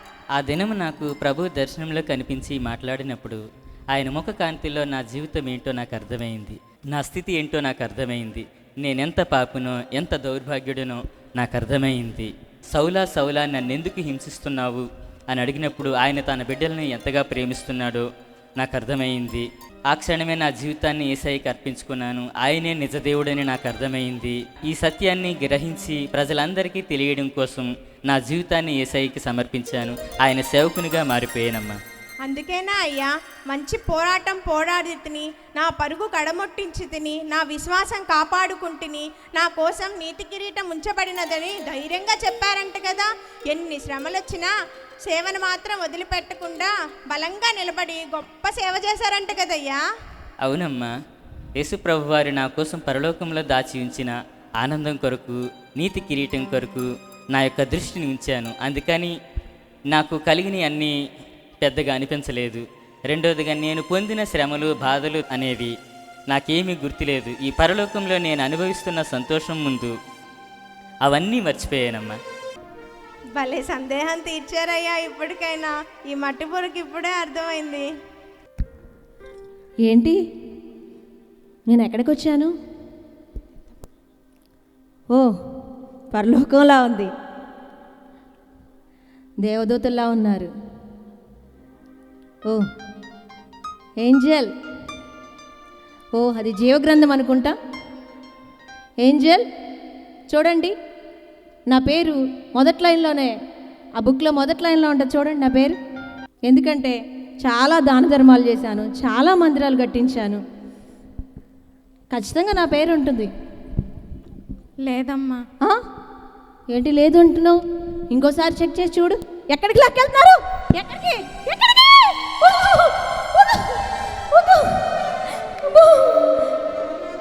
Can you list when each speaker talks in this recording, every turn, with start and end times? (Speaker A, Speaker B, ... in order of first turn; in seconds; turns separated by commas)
Speaker A: 0.4-18.1, Speaker A: 18.6-31.8, Speaker B: 32.3-44.5, Speaker B: 45.1-49.8, Speaker A: 50.4-50.9, Speaker A: 51.6-59.1, Speaker A: 59.9-60.9, Speaker A: 61.6-65.7, Speaker A: 66.3-69.9, Speaker A: 71.0-72.2, Speaker B: 73.4-77.8, Speaker C: 79.8-80.2, Speaker C: 81.7-82.5, Speaker C: 86.1-87.1, Speaker C: 89.4-90.5, Speaker C: 94.0-94.5, Speaker C: 96.2-97.5, Speaker C: 99.0-99.4, Speaker C: 100.3-100.7, Speaker C: 101.7-103.3, Speaker C: 104.0-105.8, Speaker C: 106.5-110.4, Speaker C: 112.1-113.3, Speaker B: 114.9-115.3, Speaker C: 116.7-126.5